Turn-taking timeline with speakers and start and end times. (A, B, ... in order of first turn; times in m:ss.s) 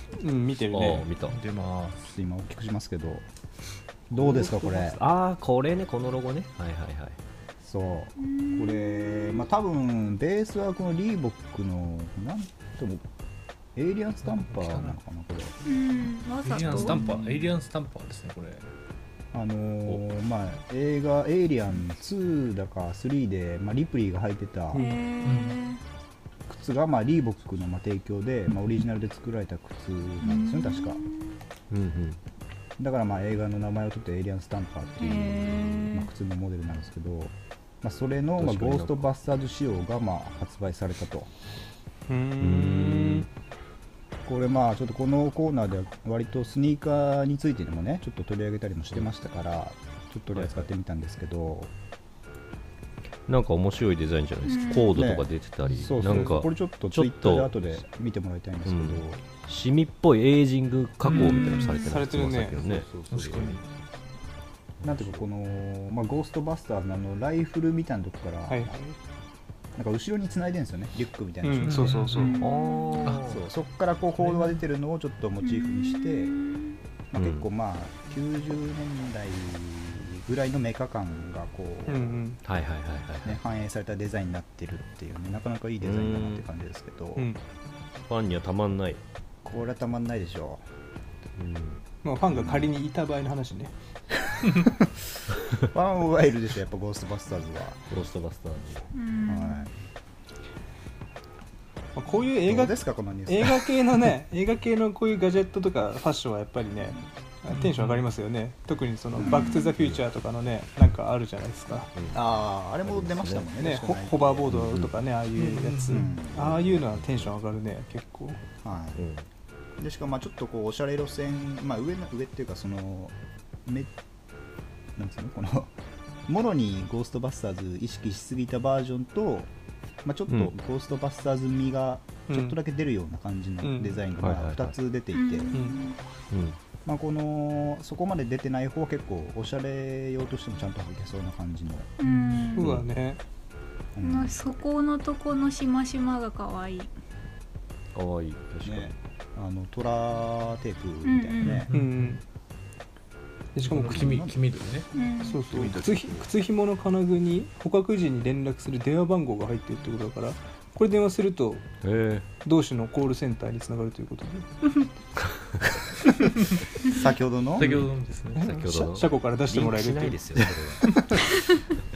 0:00.2-0:01.1 A
0:00.7-0:01.4 B
0:01.3-0:02.0 C
0:02.0-0:03.2 D
0:04.1-0:05.0 D
0:04.1-0:07.2 B
0:07.6-0:13.0 D
0:08.2-0:09.4 E
0:13.7-0:15.5 D
0:14.3-0:15.0 C
0:15.6-0:17.2 E
0:16.4-0:18.7 C
0:19.3-0:24.8 D
0:24.7-0:25.0 A
0:24.7-0:25.8 E
0:25.2-0:25.6 C
0:26.5-0:31.0 D
0:30.2-0:31.4 E
0:31.7-0:32.2 B
0:32.8-0:41.3 D
0:35.0-0:36.1 E
0:38.4-0:39.0 B
0:42.1-0:43.3 A
0:42.4-0:43.2 B
0:44.2-0:51.7 D
0:50.3-0:50.7 B
0:53.3-0:57.7 B
0:54.4-0:55.0 E
0:54.9-0:59.2 D
0:58.6-1:03.6 B
1:01.0-1:01.8 C
1:01.4-1:02.6 A
1:02.7-1:03.0 D
1:03.1-1:03.6 C
1:04.8-1:05.2 B
1:04.8-1:08.8 D
1:08.5-1:08.9 A
1:09.8-1:12.0 D
1:11.4-1:12.4 A
1:11.6-1:12.4 C
1:12.1-1:13.2 E
1:12.4-1:13.4 B
1:13.2-1:16.4 D
1:14.2-1:14.6 C
1:15.4-1:16.8 E
1:17.1-1:22.2 D
1:17.2-1:17.5 B
1:21.9-1:22.4 A
1:22.4-1:23.4 B
1:23.2-1:27.3 D
1:25.8-1:26.4 B
1:28.1-1:29.0 B
1:29.4-1:30.6 D
1:31.4-1:31.8 B
1:32.0-1:33.7 A
1:32.3-1:32.7 D
1:34.4-1:34.8 D
1:35.7-1:37.8 D
1:37.9-1:38.9 B
1:38.9-1:39.7 E
1:39.3-1:39.7 D
1:42.0-1:51.9 A
1:42.5-1:43.6 D
1:47.5-1:48.0 C
1:49.2-1:49.5 D
1:49.3-1:49.7 E
1:51.9-1:52.2 B
1:52.1-1:54.8 D
1:52.8-1:53.5 B
1:53.6-1:58.4 A
1:54.5-1:54.9 B
1:55.4-1:56.0 C
1:55.9-1:56.8 D
1:56.6-1:57.3 B
1:58.6-1:59.0 D
1:59.0-1:59.2 B
1:59.8-2:03.9 D
2:05.0-2:05.7 D
2:06.3-2:09.5 D
2:10.0-2:15.6 D
2:12.3-2:12.6 A
2:13.6-2:14.0 A
2:14.2-2:14.7 B
2:15.1-2:16.0 E
2:15.5-2:15.8 A
2:16.3-2:16.6 B
2:16.8-2:21.9 D
2:22.0-2:22.7 E
2:22.0-2:22.4 C
2:22.5-2:23.2 A
2:22.6-2:22.8 B
2:23.9-2:24.4 D
2:24.0-2:26.9 E
2:27.9-2:29.0 B
2:28.6-2:31.7 D
2:31.0-2:31.6 E
2:31.4-2:32.2 C
2:31.7-2:32.2 A
2:33.5-2:34.2 A
2:33.6-2:34.9 C
2:33.9-2:34.4 D
2:34.9-2:35.4 E
2:35.2-2:41.6 A
2:35.5-2:36.2 B
2:41.8-2:42.2 B
2:42.4-2:44.7 A
2:46.8-2:47.8 D
2:47.6-2:48.6 C
2:48.4-2:50.4 A
2:48.4-2:51.0 B